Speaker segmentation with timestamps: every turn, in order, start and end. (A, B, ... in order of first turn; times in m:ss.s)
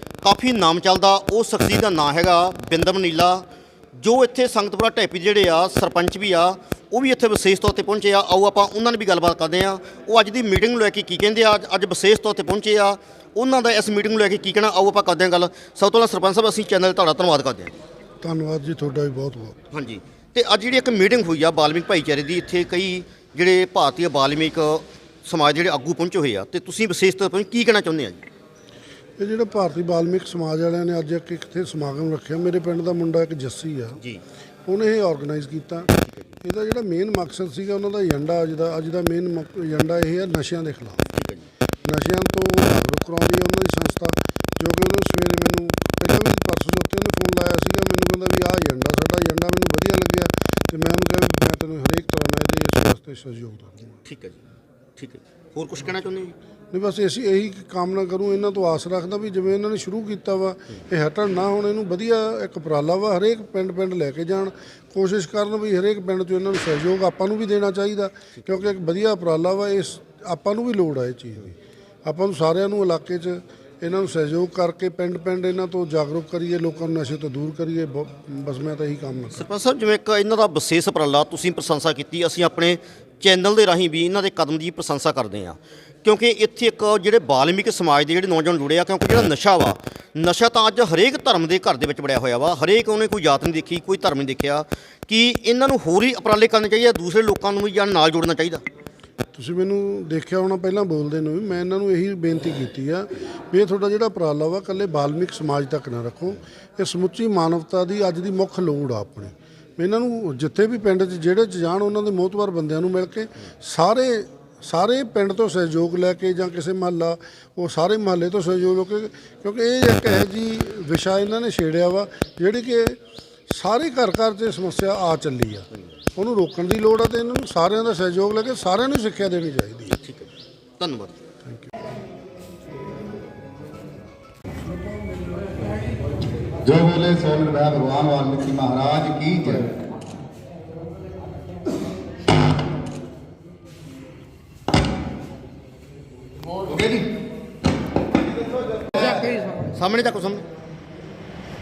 0:00.2-0:17.8 A
0:18.2-0:19.6 B
0:19.7-0:28.2 A
0:29.2-0:34.0 B
0:34.6-0:35.9 B
0:36.0-0:36.4 A
0:36.4-0:41.1 B
0:41.1-0:41.5 A
0:41.8-0:54.0 B
0:54.0-0:54.4 A
0:55.0-0:56.3 A
0:56.7-1:19.4 B
1:08.4-1:08.7 A
1:19.3-1:38.6 A
1:39.3-2:03.0 B
2:03.5-2:10.0 B
2:10.0-2:11.2 A
2:11.4-2:11.7 B
2:16.6-2:19.7 C
2:26.7-2:27.1 C
2:29.7-2:30.4 A